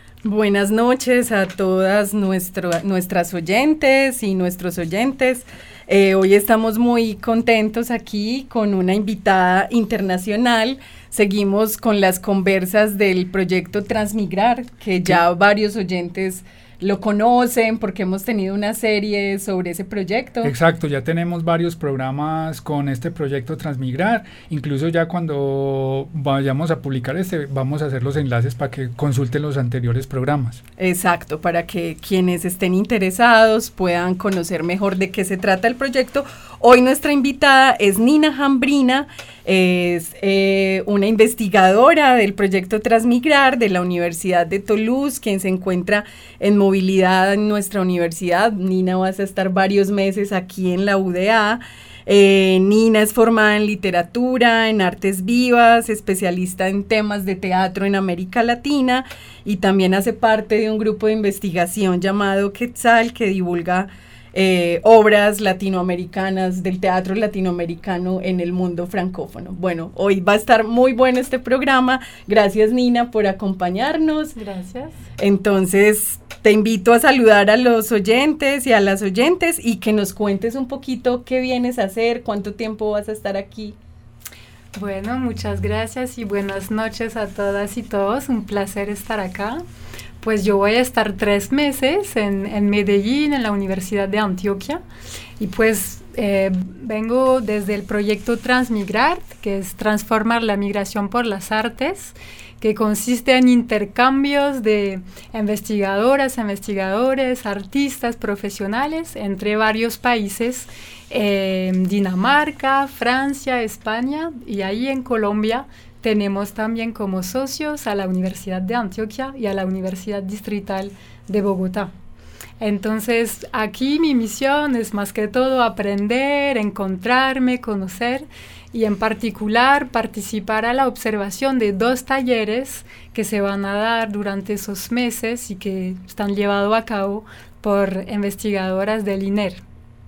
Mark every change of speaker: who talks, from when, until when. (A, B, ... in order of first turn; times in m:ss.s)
0:00.2-0:20.5 A
0:20.4-0:30.6 B
0:30.8-1:14.4 A
1:14.4-1:15.0 C
1:15.2-1:23.8 A
1:24.7-1:29.6 C
1:30.2-1:34.8 C
1:35.4-2:01.9 C
2:02.6-2:19.6 C